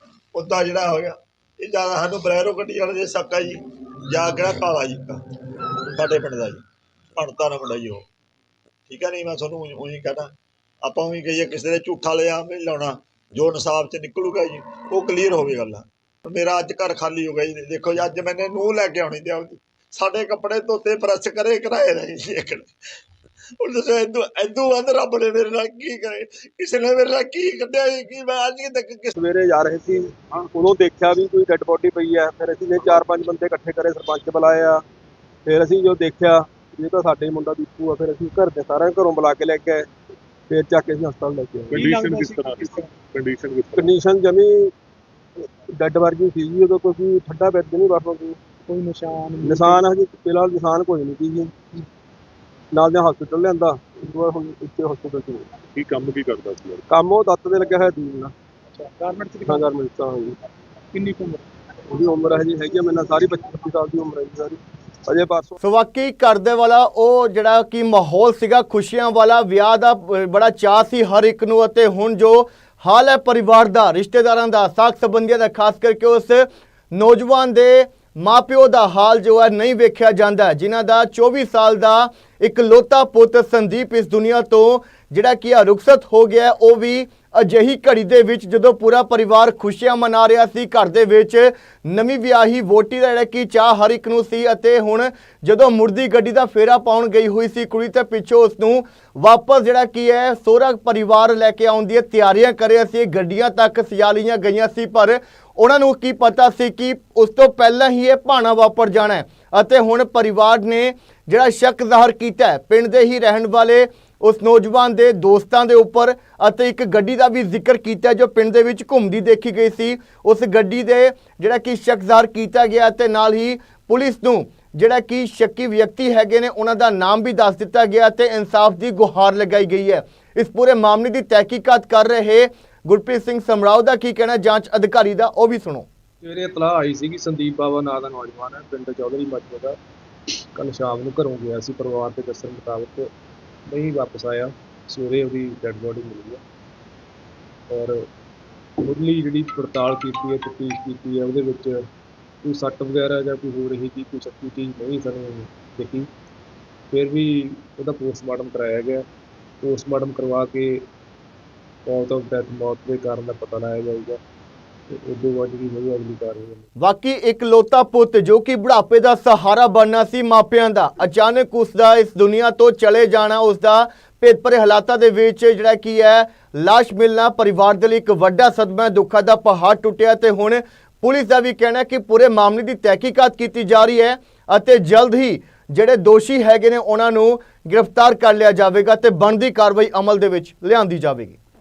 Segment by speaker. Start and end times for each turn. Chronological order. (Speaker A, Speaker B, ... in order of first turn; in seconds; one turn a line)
Speaker A: 0.3-5.2
Speaker A: 5.9-6.6
Speaker A: 7.2-8.0
Speaker A: 8.9-10.3
Speaker A: 10.8-22.7
Speaker A: 23.6-29.1
Speaker B: 29.2-34.8
Speaker B: 35.5-39.9
Speaker B: 40.5-41.8
Speaker C: 41.7-44.0
Speaker D: 41.7-42.9
Speaker B: 43.8-44.7
Speaker B: 45.8-48.4
Speaker D: 48.7-49.8
Speaker B: 49.4-51.5
Speaker B: 52.8-55.6
Speaker C: 55.7-56.9
Speaker B: 56.9-58.3
Speaker D: 58.8-59.6
Speaker B: 59.5-60.4
Speaker D: 60.9-61.4
Speaker B: 61.9-65.5
Speaker E: 65.6-135.9
Speaker F: 136.2-139.8
Speaker F: 140.6-143.1
Speaker F: 143.7-146.4
Speaker F: 147.7-148.1
Speaker F: 148.8-151.8
Speaker F: 152.4-156.1
Speaker F: 156.9-159.1
Speaker F: 159.6-160.8
Speaker F: 161.9-164.2
Speaker F: 164.9-166.7
Speaker E: 166.8-191.4